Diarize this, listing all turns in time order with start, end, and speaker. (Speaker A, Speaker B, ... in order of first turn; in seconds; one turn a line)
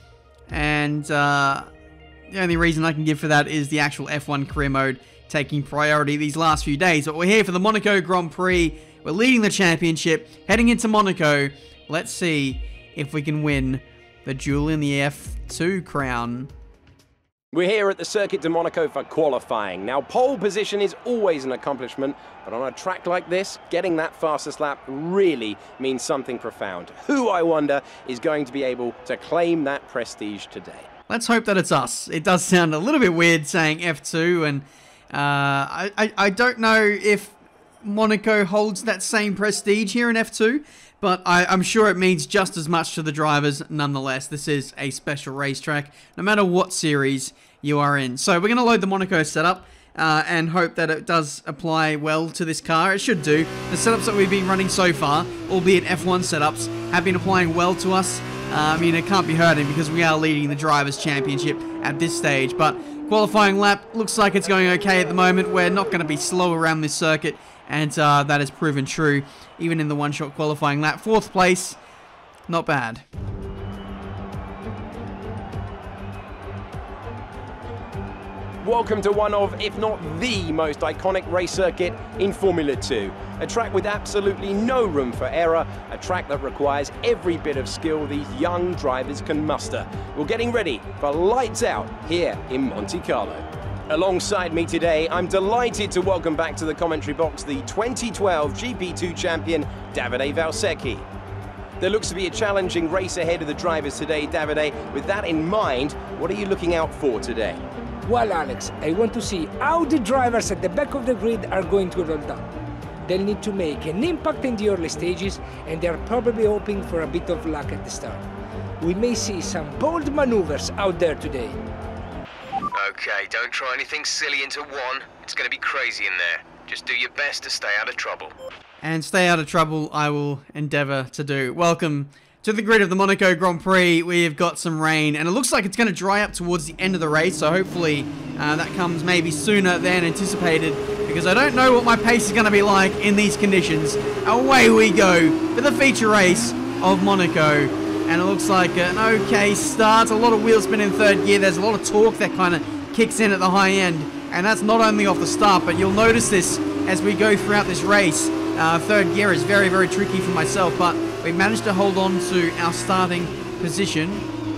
Speaker A: 0.5-1.7
Speaker A: 2.3-16.5
Speaker B: 17.5-30.9
Speaker A: 31.1-71.8
Speaker A: 72.5-73.0
Speaker B: 78.6-101.0
Speaker B: 101.8-107.6
Speaker C: 108.0-112.4
Speaker C: 113.0-118.2
Speaker C: 118.8-121.6
Speaker D: 122.7-128.3
Speaker A: 128.8-164.2